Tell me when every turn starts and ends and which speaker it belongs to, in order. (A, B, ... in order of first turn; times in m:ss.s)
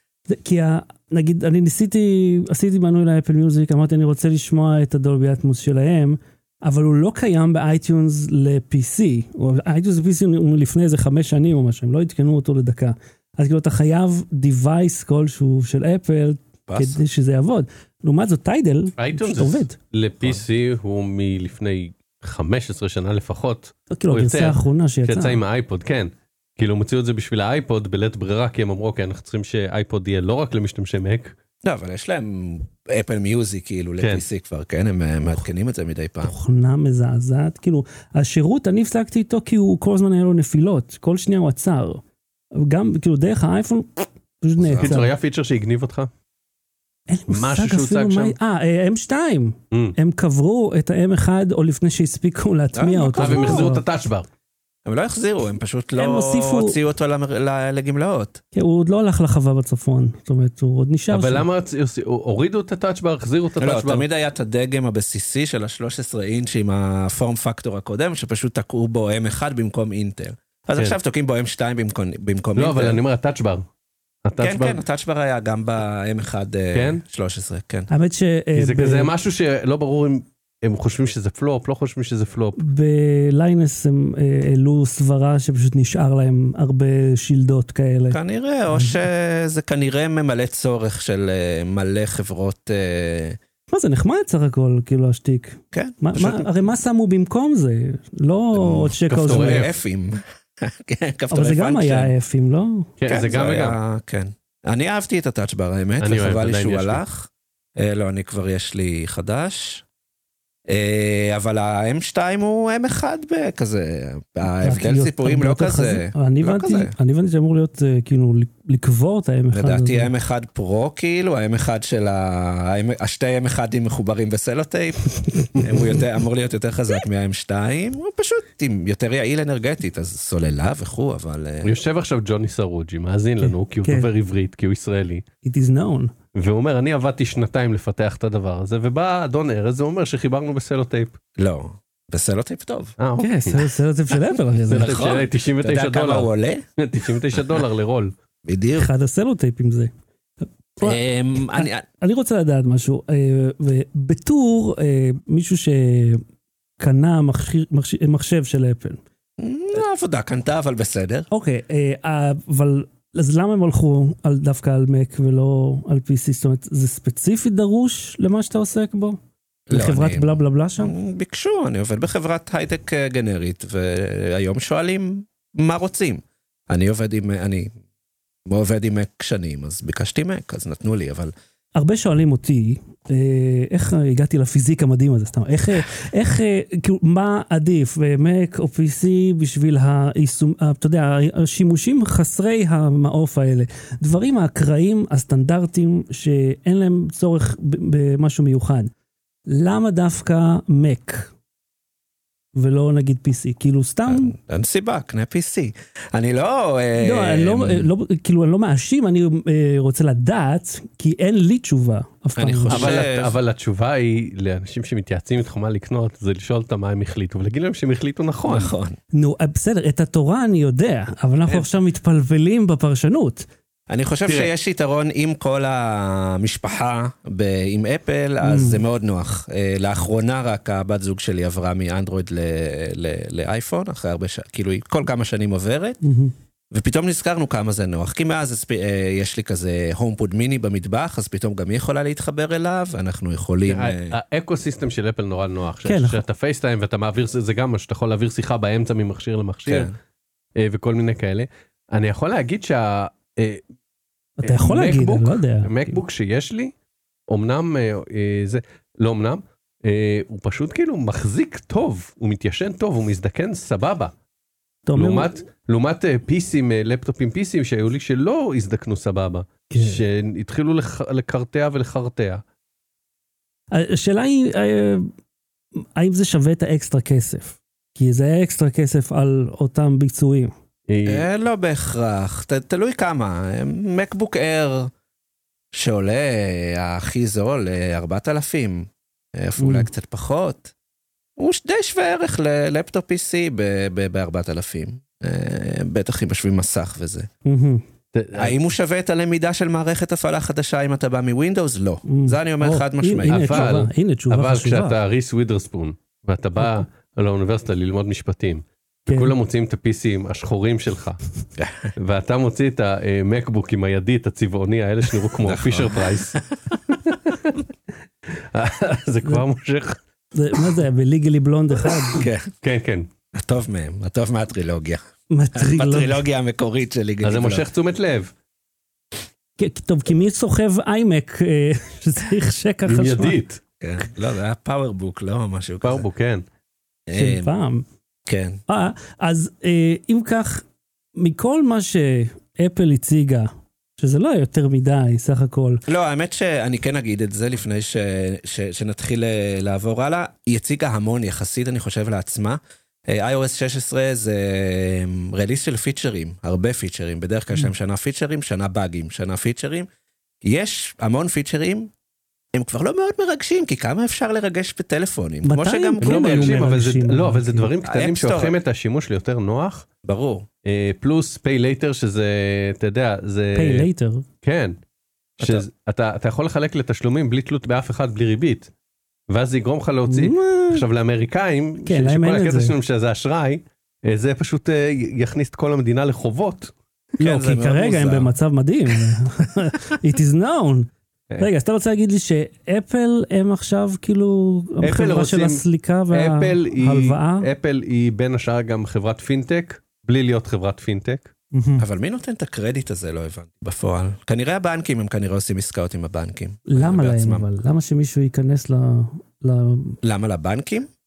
0:00.3-0:19.8 A
0:16.7-0:17.0 B
0:19.0-0:31.3 C
0:23.9-0:25.4 A
0:31.6-0:36.3 B
0:36.2-0:42.0 A
0:42.5-0:45.1 A
0:44.6-0:45.0 B
0:44.8-0:46.1 C
0:47.1-0:53.8 A
0:47.3-0:48.4 C
0:52.7-0:53.8 B
0:53.2-0:54.3 C
0:54.9-0:58.4 B
0:56.0-0:56.8 A
0:58.5-1:01.5 A
1:01.1-1:04.0 C
1:03.6-1:13.0 B
1:12.6-1:13.6 C
1:14.2-1:14.8 C
1:14.4-1:17.9 B
1:16.7-1:17.0 C
1:17.9-1:19.1 A
1:18.6-1:22.6 C
1:22.6-1:28.2 A
1:28.1-1:33.4 B
1:28.7-1:29.0 A
1:33.7-1:39.6 A
1:35.7-1:36.5 B
1:38.5-1:42.1 B
1:39.1-1:39.7 C
1:41.3-1:42.9 A
1:43.0-1:43.8 C
1:43.1-1:49.8 B
1:46.0-1:47.0 C
1:50.7-1:56.9 B
1:54.6-2:00.1 A
1:59.5-2:11.8 B
2:05.3-2:05.6 A
2:11.6-2:15.2 C
2:13.4-2:14.1 A
2:15.4-2:16.1 A
2:16.4-2:21.2 C
2:21.4-2:23.0 B
2:23.0-2:23.6 C
2:23.2-2:25.1 A
2:24.7-2:26.6 B
2:24.7-2:28.1 C
2:28.4-2:28.9 B
2:28.8-2:29.9 A
2:30.8-2:36.2 A
2:30.8-2:31.8 B
2:36.8-2:39.0 A
2:39.4-2:41.3 B
2:41.3-2:49.2 A
2:49.7-2:57.8 B
2:49.7-2:50.9 A
2:58.5-3:01.3 B
3:01.8-3:18.9 A
3:19.5-3:21.3 A
3:22.6-3:24.4 A
3:24.1-3:27.9 B
3:27.0-3:33.0 A
3:32.4-3:33.3 B
3:32.7-3:38.7 C
3:38.5-3:39.0 B
3:39.1-3:43.5 A
3:43.9-3:56.0 B
3:48.4-3:48.8 A
3:56.0-3:56.3 A
3:56.7-4:04.2 B
4:03.7-4:09.9 C
4:05.8-4:06.2 A
4:09.7-4:09.9 B
4:10.6-4:13.6 C
4:14.4-4:16.0 A
4:14.5-4:16.7 C
4:17.3-4:24.1 C
4:24.9-4:25.4 A
4:25.0-4:32.4 C
4:29.7-4:30.0 A
4:33.7-4:35.1 A
4:36.0-4:40.5 A
4:40.9-4:41.3 C
4:41.1-4:44.9 B
4:45.7-4:50.7 B
4:49.6-4:49.9 A
4:51.4-4:57.3 B
4:57.4-4:57.8 A
4:58.1-4:58.6 C
4:58.4-5:03.7 B
5:02.1-5:05.0 A
5:03.3-5:11.2 C
5:09.1-5:09.3 A
5:11.6-5:11.9 B
5:12.0-5:16.4 C
5:15.4-5:17.2 B
5:17.1-5:17.5 C
5:18.5-5:20.0 C
5:20.4-5:22.2 A
5:22.1-5:22.5 B
5:22.6-5:23.1 C
5:23.3-5:25.0 B
5:25.3-5:26.2 A
5:25.6-5:27.7 B
5:27.2-5:28.3 C
5:29.6-5:33.4 A
5:32.9-5:33.6 C
5:33.8-5:36.1 B
5:35.8-5:36.4 C
5:37.1-5:37.5 B
5:37.1-5:37.8 A
5:38.3-5:38.6 B
5:38.7-5:40.6 A
5:41.2-5:45.8 A
5:45.9-5:59.9 B
6:00.4-6:01.9 B
6:02.5-6:06.7 B
6:05.4-6:07.7 A
6:06.0-6:09.9 C
6:07.8-6:08.6 B
6:10.0-6:10.5 B
6:10.6-6:13.9 C
6:13.5-6:14.3 A
6:14.4-6:14.8 C
6:15.4-6:18.7 C
6:15.4-6:15.6 B
6:19.3-6:26.7 C
6:20.1-6:20.8 A
6:21.8-6:22.8 A
6:27.2-6:28.3 B
6:27.2-6:37.5 A
6:34.8-6:41.3 C
6:41.5-6:41.9 A
6:41.8-6:47.5 B
6:46.7-6:50.0 A
6:50.0-6:50.9 B